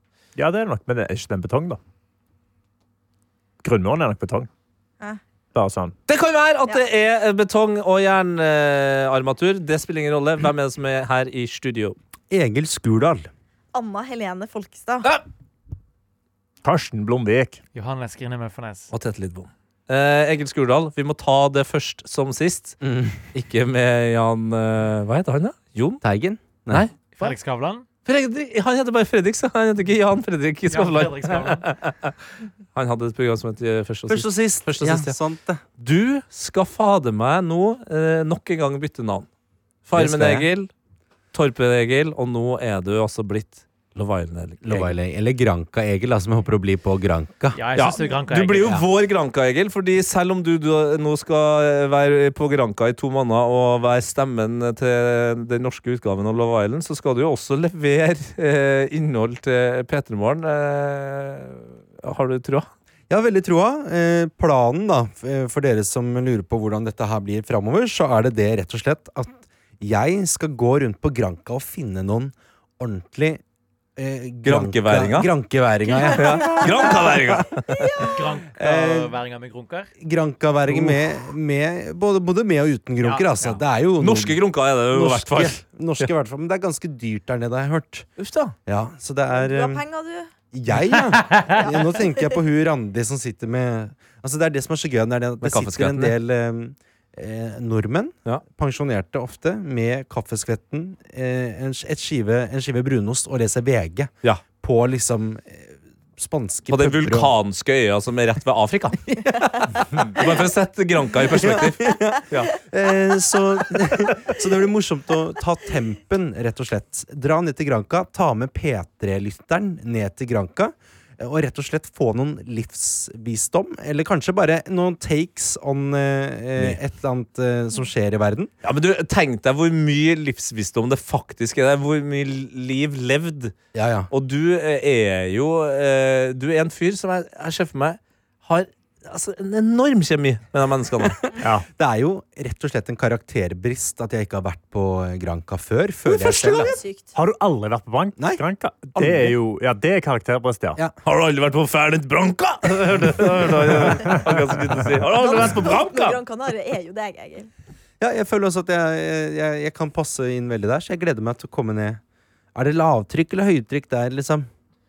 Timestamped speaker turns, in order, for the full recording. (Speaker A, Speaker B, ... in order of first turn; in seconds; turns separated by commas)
Speaker A: 0.3-1.8, Speaker A: 3.6-4.5, Speaker A: 5.5-5.9, Speaker B: 6.1-11.9, Speaker C: 12.3-13.3, Speaker D: 13.7-15.1, Speaker A: 16.6-17.6, Speaker E: 17.7-18.9, Speaker B: 18.9-22.8, Speaker C: 22.8-23.1, Speaker B: 23.3-26.0, Speaker C: 26.0-27.0, Speaker B: 26.7-27.3, Speaker E: 27.2-27.9, Speaker B: 28.0-32.1, Speaker E: 30.6-31.7, Speaker B: 32.7-35.2, Speaker C: 34.1-35.6, Speaker B: 35.8-39.3, Speaker B: 39.9-40.7, Speaker C: 39.9-40.5, Speaker B: 41.3-45.0, Speaker C: 44.6-47.6, Speaker E: 47.5-48.9, Speaker B: 47.7-62.7, Speaker C: 63.1-73.4, Speaker C: 74.0-77.4, Speaker B: 74.4-75.3, Speaker D: 75.8-78.2, Speaker B: 76.1-78.0, Speaker E: 78.1-79.9, Speaker C: 78.5-79.1, Speaker C: 80.0-88.1, Speaker E: 83.0-83.6, Speaker B: 83.5-86.1, Speaker B: 88.2-88.5, Speaker C: 88.7-89.8, Speaker D: 89.3-90.3, Speaker C: 90.5-107.3, Speaker B: 90.8-91.2, Speaker D: 91.5-92.3, Speaker B: 95.4-96.1, Speaker B: 106.7-109.0, Speaker B: 110.1-112.5, Speaker C: 111.1-128.5, Speaker B: 128.6-133.6, Speaker C: 133.7-134.1, Speaker B: 134.1-141.2, Speaker C: 141.8-146.8, Speaker D: 146.5-147.1, Speaker A: 147.1-150.8, Speaker C: 148.9-149.3, Speaker B: 151.0-156.2, Speaker D: 155.1-157.5, Speaker C: 158.0-162.0, Speaker C: 162.5-164.5